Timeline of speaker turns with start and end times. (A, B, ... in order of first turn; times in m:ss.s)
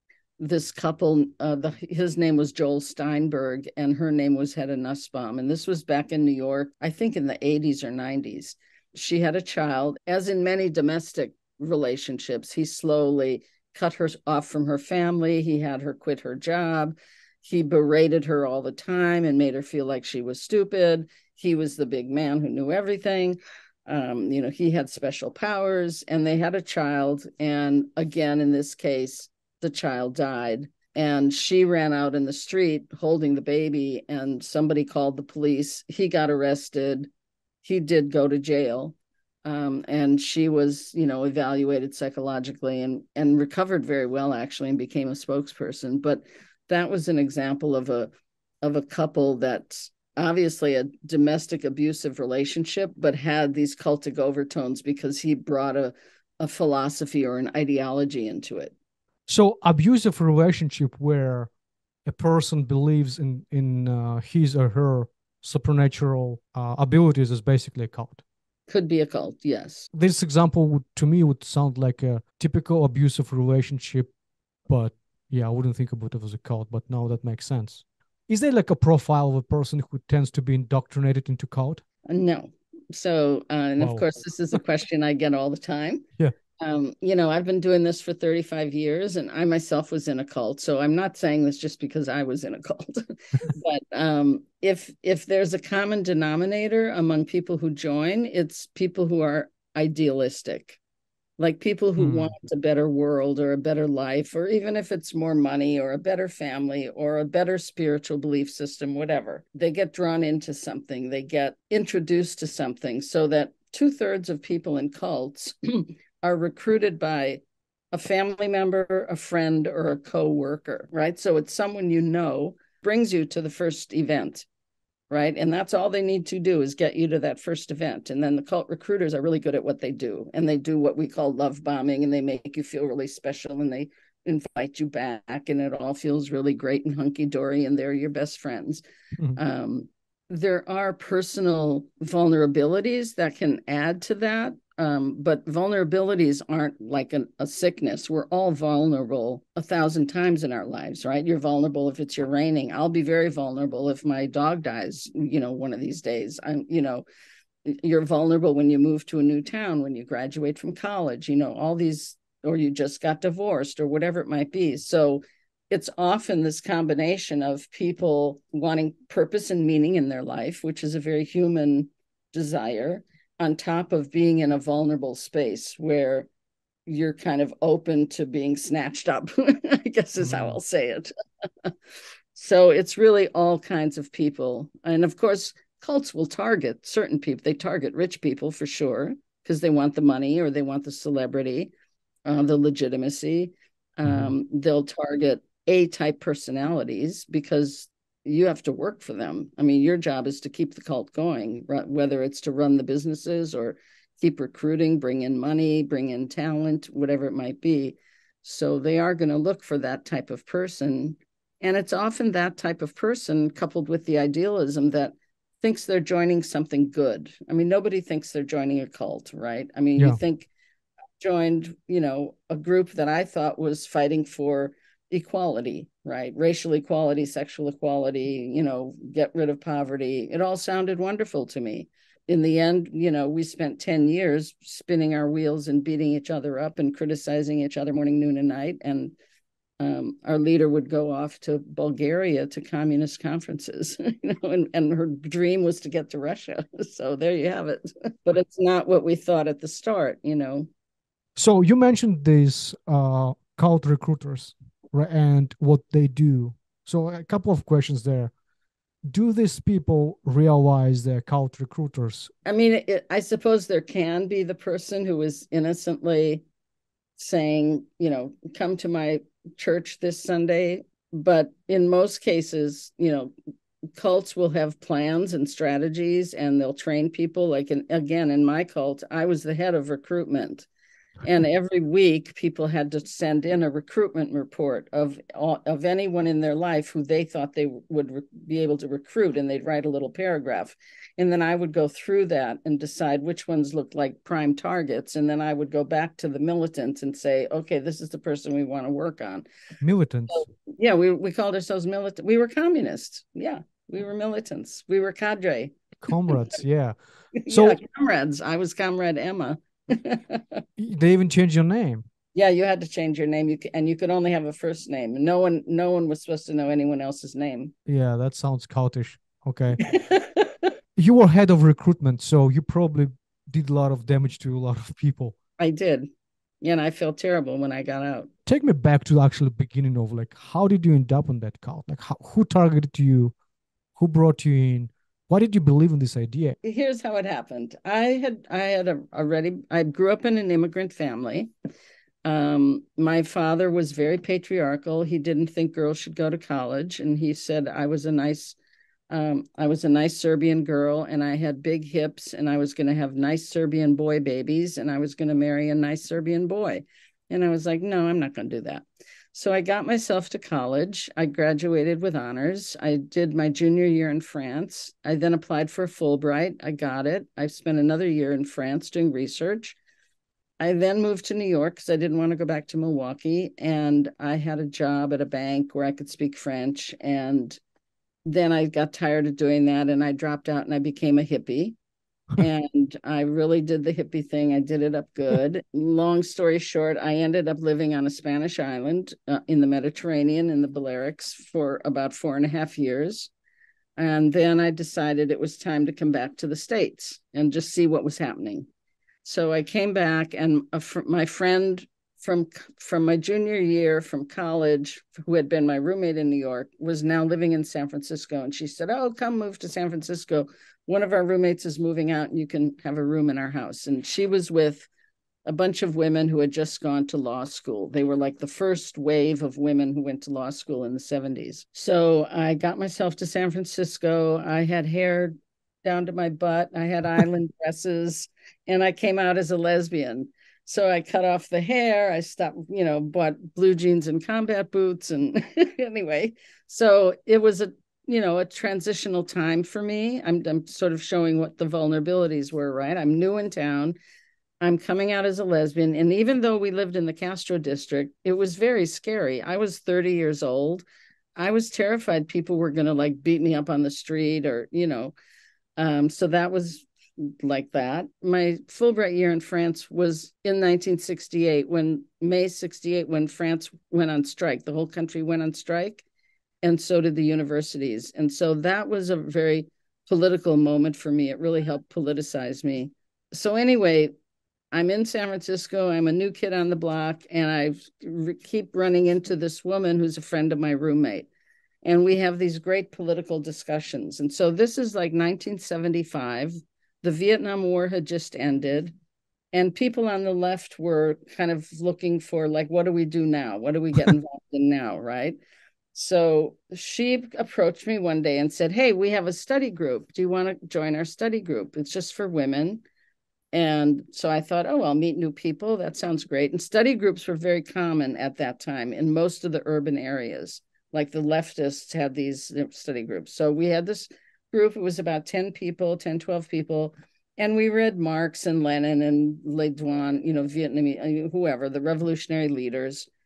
0:00.4-0:37.1 A
0:37.6-0:48.1 A
0:48.6-0:58.7 A
0:59.3-1:01.5 B
1:02.0-1:08.2 B
1:08.7-1:09.9 A
1:09.9-1:14.1 B
1:14.7-1:21.8 B
1:22.1-1:26.0 A
1:23.8-1:24.0 B
1:26.6-1:40.8 A
1:41.4-2:04.4 A
1:42.0-1:42.3 B
2:05.1-2:18.8 A
2:19.4-2:37.0 A
2:37.6-2:56.3 A
2:56.8-3:01.1 A
3:00.2-3:00.6 B
3:02.3-3:11.7 A
3:12.2-3:40.5 A
3:41.2-3:59.2 A
3:59.8-4:10.7 A
4:11.4-4:18.3 B
4:19.1-4:22.3 B
4:22.4-4:26.4 A
4:27.2-4:33.3 A
4:34.0-4:40.7 A
4:41.2-4:59.4 A
4:59.8-5:00.5 B
5:00.3-5:05.8 A
5:06.0-5:06.9 B
5:07.4-5:10.6 A
5:07.5-5:07.8 B
5:10.8-5:12.0 B
5:12.3-5:17.7 A
5:17.8-5:19.9 B
5:19.8-5:20.5 A
5:21.0-5:25.3 B
5:25.6-5:26.1 A
5:26.6-5:28.3 A
5:28.4-5:33.3 B
5:34.0-5:36.6 B
5:36.6-5:41.5 A
5:42.2-5:48.6 A
5:49.1-6:09.8 A
6:10.6-6:17.6 A
6:18.2-6:21.8 A
6:22.4-6:33.3 A
6:34.0-6:38.7 A
6:39.2-6:54.9 A
6:55.4-7:24.0 A
7:24.6-7:30.8 A
7:31.4-7:35.1 A
7:35.8-7:46.0 A
7:46.6-7:54.1 A
7:54.7-8:01.3 A
8:01.8-8:08.9 A
8:09.5-8:15.4 A
8:15.9-8:22.8 A
8:23.5-8:43.1 A